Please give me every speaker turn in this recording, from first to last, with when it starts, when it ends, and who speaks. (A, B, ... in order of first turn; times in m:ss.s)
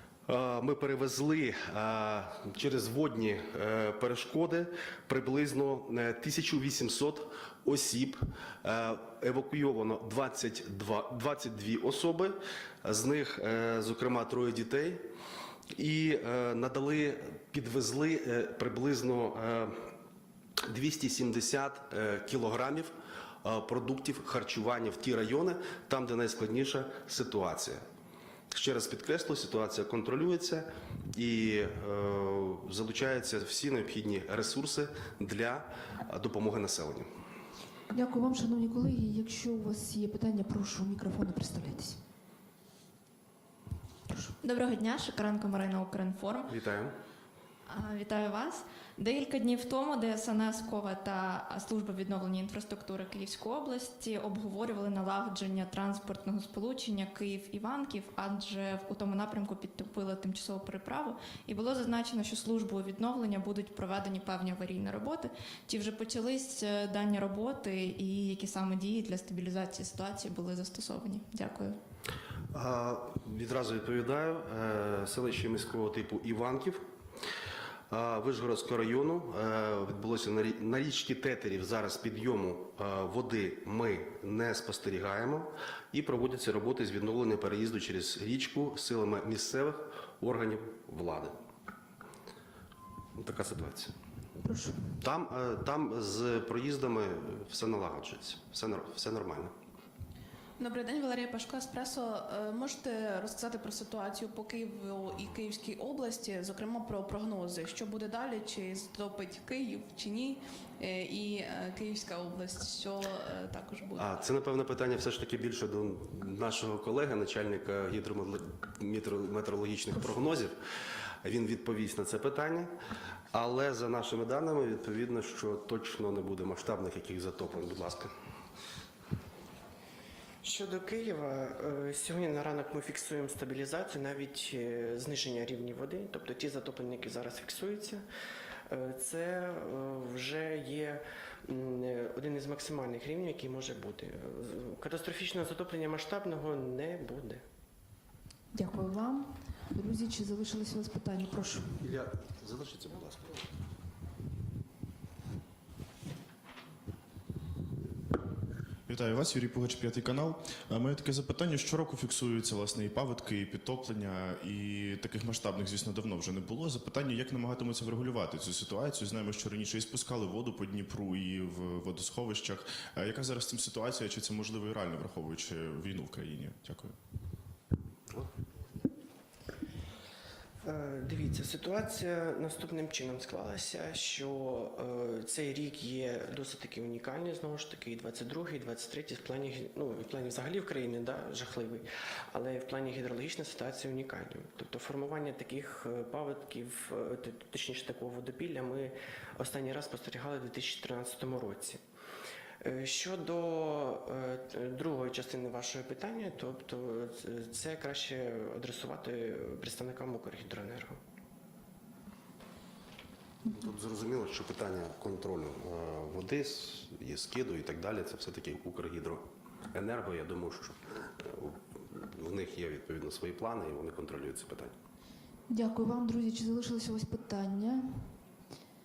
0:00.3-0:15.0 A
0:15.7-0:19.8 A
0:20.7-0:22.9 A
0:23.4-0:27.8 A
0:28.5-0:37.1 A
0:37.9-0:42.0 B
0:44.4-0:46.5 C
0:46.5-0:47.0 A
0:47.7-1:11.8 C
1:12.5-1:16.8 A
1:17.9-1:31.3 A
1:33.2-1:33.9 A
1:34.4-1:34.8 B
1:35.0-1:39.5 A
1:40.6-1:54.1 D
1:54.0-2:00.5 A
2:01.2-2:02.7 A
2:03.3-2:08.1 A
2:10.4-2:18.0 E
2:18.7-2:27.4 E
2:28.5-2:31.7 B
2:31.8-2:33.4 A
2:38.9-2:56.9 F
3:00.6-3:21.8 E
3:22.6-3:31.0 E
3:33.4-3:44.7 A
3:45.5-3:48.1 B